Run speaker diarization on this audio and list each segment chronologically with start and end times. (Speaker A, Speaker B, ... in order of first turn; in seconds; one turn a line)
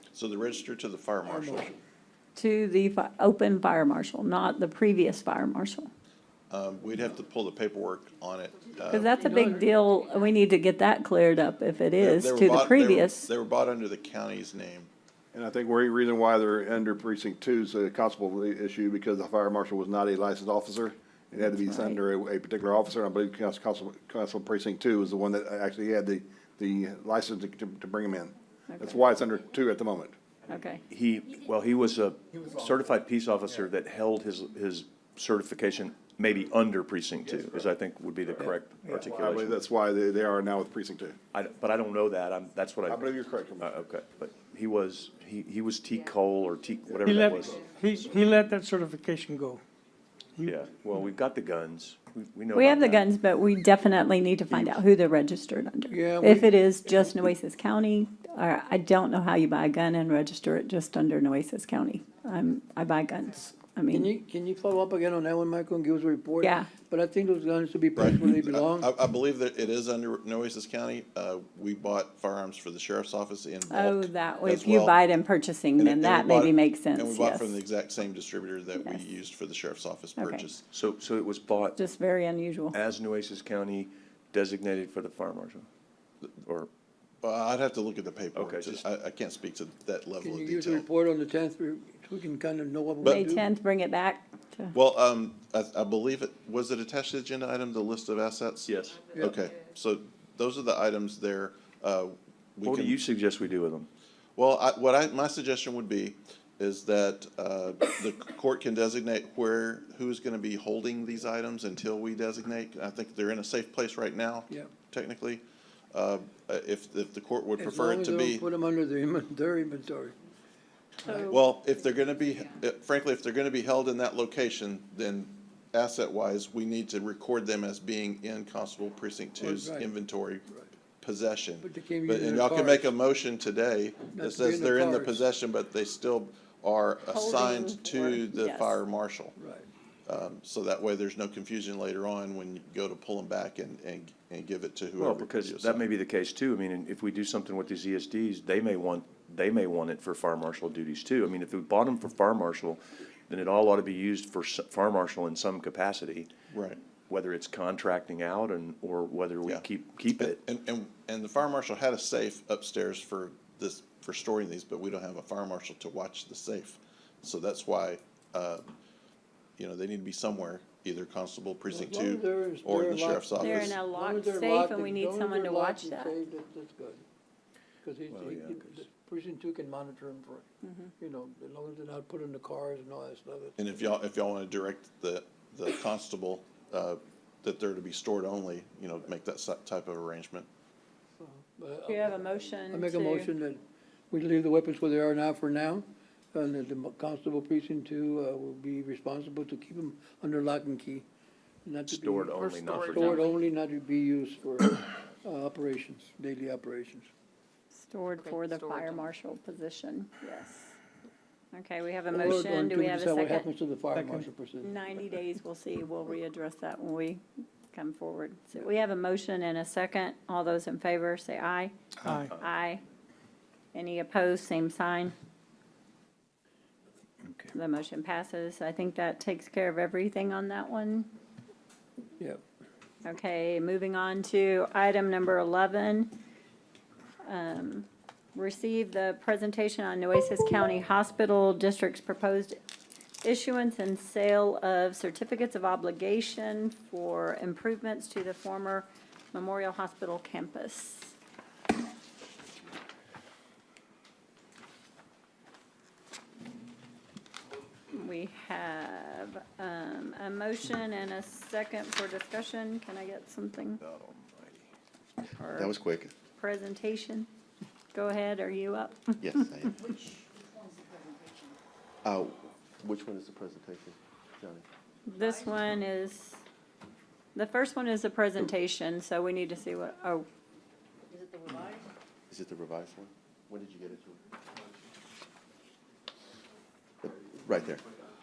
Speaker A: 0.1-1.7
Speaker B: 1.2-1.8
Speaker C: 2.4-5.9
Speaker A: 6.5-9.2
Speaker C: 8.9-13.3
Speaker B: 9.2-9.7
Speaker A: 12.0-14.9
Speaker D: 15.3-30.1
Speaker C: 21.4-22.0
Speaker C: 28.7-29.0
Speaker C: 30.5-30.8
Speaker E: 30.9-39.6
Speaker D: 38.9-41.1
Speaker E: 41.3-47.7
Speaker D: 42.9-43.8
Speaker F: 47.0-49.6
Speaker E: 50.4-53.1
Speaker C: 52.5-64.1
Speaker E: 54.5-54.8
Speaker B: 55.9-57.1
Speaker B: 63.9-68.9
Speaker C: 66.4-66.7
Speaker A: 68.0-75.0
Speaker C: 73.7-77.6
Speaker A: 75.8-80.7
Speaker C: 78.8-79.0
Speaker C: 80.2-80.5
Speaker E: 80.7-81.8
Speaker C: 81.8-82.8
Speaker E: 82.7-85.7
Speaker E: 86.4-86.7
Speaker A: 87.2-90.9
Speaker E: 88.3-88.8
Speaker B: 90.2-93.5
Speaker C: 93.0-94.7
Speaker A: 94.7-103.0
Speaker E: 98.6-99.1
Speaker E: 102.6-103.9
Speaker A: 104.3-118.5
Speaker B: 117.6-120.2
Speaker B: 121.0-121.3
Speaker C: 121.1-121.4
Speaker A: 121.3-130.5
Speaker B: 129.4-129.9
Speaker A: 131.0-139.3
Speaker B: 131.6-132.9
Speaker B: 134.1-135.2
Speaker C: 137.1-138.8
Speaker B: 139.4-139.7
Speaker A: 140.1-145.9
Speaker E: 144.9-156.3
Speaker A: 156.5-156.8
Speaker E: 157.1-160.4
Speaker A: 159.4-168.7
Speaker A: 169.6-173.8
Speaker B: 171.7-177.0
Speaker C: 173.4-176.2
Speaker B: 177.8-180.5
Speaker E: 178.1-178.8
Speaker C: 180.6-180.9
Speaker B: 181.0-183.6
Speaker A: 183.6-190.5
Speaker B: 191.2-201.1
Speaker C: 191.9-193.3
Speaker B: 201.6-207.1
Speaker E: 201.9-203.2
Speaker C: 207.7-210.7
Speaker C: 211.5-213.5
Speaker B: 212.1-214.7
Speaker F: 213.9-214.3
Speaker C: 214.6-217.2
Speaker C: 217.7-221.7
Speaker F: 222.0-222.3
Speaker E: 222.2-222.5
Speaker C: 222.4-222.8
Speaker C: 223.7-225.1
Speaker C: 227.5-231.1
Speaker C: 233.0-236.1
Speaker C: 237.2-242.6
Speaker C: 243.2-251.1
Speaker C: 257.9-263.8
Speaker E: 263.8-264.7
Speaker C: 265.4-265.7
Speaker G: 265.5-266.1
Speaker C: 266.3-267.3
Speaker C: 267.9-269.5
Speaker G: 269.2-270.2
Speaker G: 272.0-274.6
Speaker C: 275.1-276.4
Speaker C: 277.3-280.2
Speaker F: 281.1-281.7
Speaker G: 282.3-284.2
Speaker G: 287.0-287.8